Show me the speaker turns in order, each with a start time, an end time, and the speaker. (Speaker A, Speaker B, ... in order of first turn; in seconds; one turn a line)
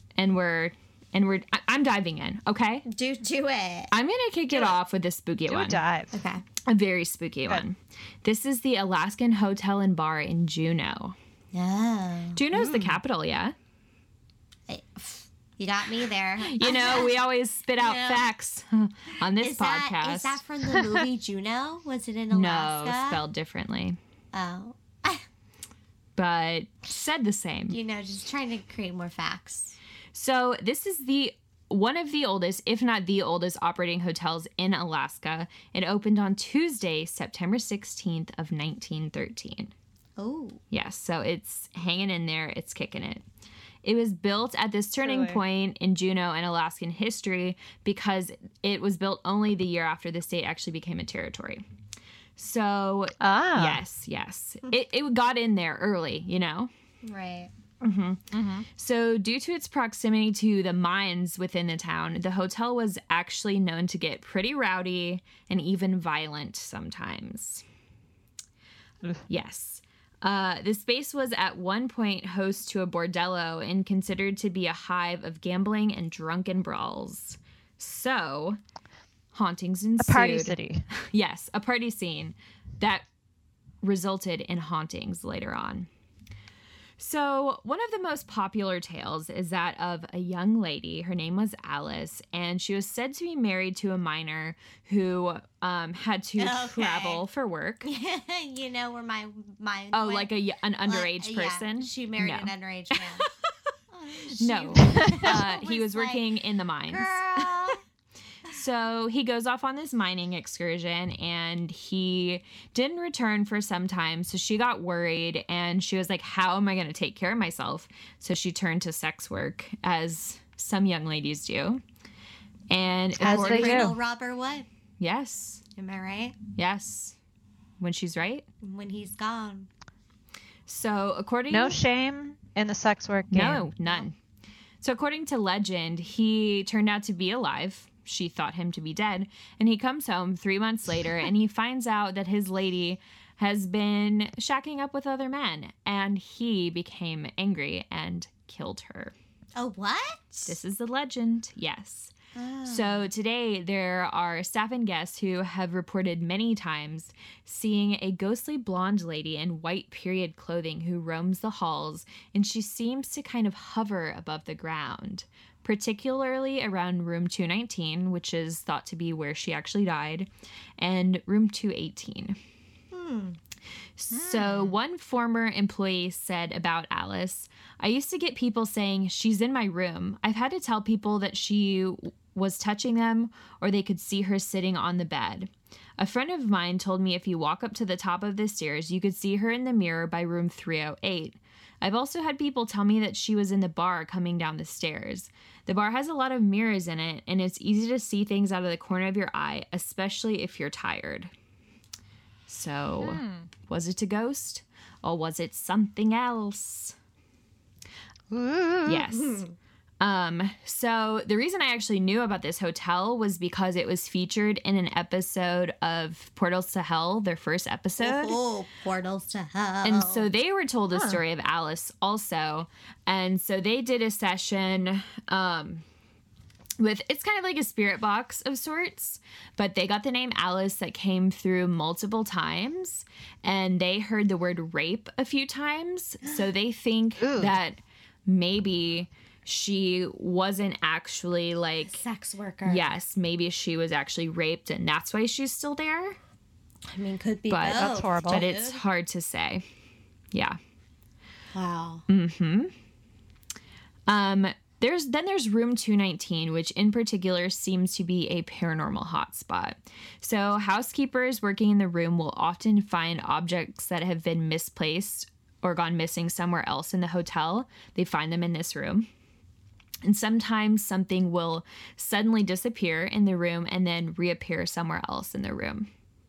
Speaker A: 0.2-2.9
Speaker B: 2.9-3.9
Speaker A: 3.9-5.8
Speaker C: 4.5-4.8
Speaker C: 5.5-6.2
Speaker B: 6.1-6.4
Speaker A: 6.6-11.1
Speaker B: 11.5-12.4
Speaker A: 12.3-13.5
Speaker C: 12.5-13.0
Speaker B: 14.7-17.2
Speaker A: 16.4-20.4
Speaker B: 17.8-18.3
Speaker B: 19.2-23.2
Speaker C: 20.7-21.0
Speaker A: 22.3-24.0
Speaker B: 24.3-25.2
Speaker A: 26.1-27.8
Speaker B: 27.7-29.8
Speaker A: 30.1-39.7
Speaker B: 40.2-40.6
Speaker A: 40.7-43.2
Speaker A: 43.8-51.6
Speaker C: 45.0-45.4
Speaker A: 52.4-56.7
Speaker C: 53.2-53.8
Speaker B: 57.0-57.5
Speaker A: 57.8-67.6
Speaker C: 58.3-58.7
Speaker A: 69.3-78.6
Speaker A: 79.3-83.0
Speaker C: 80.0-80.8
Speaker A: 83.8-85.9
Speaker A: 87.0-97.9
Speaker B: 96.4-97.2
Speaker B: 97.8-100.3
Speaker A: 99.9-103.2
Speaker B: 100.8-103.3
Speaker B: 103.9-106.3
Speaker A: 104.4-107.8
Speaker C: 104.8-105.4
Speaker B: 106.9-107.8
Speaker A: 108.5-121.8
Speaker A: 122.7-123.8
Speaker B: 123.2-124.7
Speaker C: 123.2-124.0
Speaker A: 125.0-125.6
Speaker B: 125.7-126.4
Speaker A: 126.5-127.2
Speaker A: 127.8-128.4
Speaker B: 128.6-129.7
Speaker A: 130.7-131.8
Speaker C: 131.5-133.7
Speaker A: 133.3-134.1
Speaker A: 134.8-149.1
Speaker B: 149.6-150.6
Speaker A: 150.4-152.1
Speaker B: 152.3-153.1
Speaker A: 152.7-172.4
Speaker B: 172.9-173.4
Speaker A: 174.0-201.3
Speaker C: 174.1-174.8
Speaker A: 202.5-206.9
Speaker C: 203.0-203.5
Speaker C: 208.3-209.0
Speaker A: 208.8-209.4
Speaker B: 209.1-209.5
Speaker A: 210.0-218.4
Speaker B: 218.0-220.3
Speaker A: 219.8-225.8
Speaker C: 220.9-221.2
Speaker A: 226.8-242.0
Speaker B: 236.2-236.5
Speaker C: 237.2-237.5
Speaker B: 241.8-242.8
Speaker A: 242.6-246.2
Speaker B: 246.9-248.8
Speaker A: 247.5-249.6
Speaker C: 247.7-248.4
Speaker A: 250.3-250.6
Speaker B: 251.5-252.0
Speaker A: 252.1-252.7
Speaker A: 254.1-269.1
Speaker A: 270.0-275.9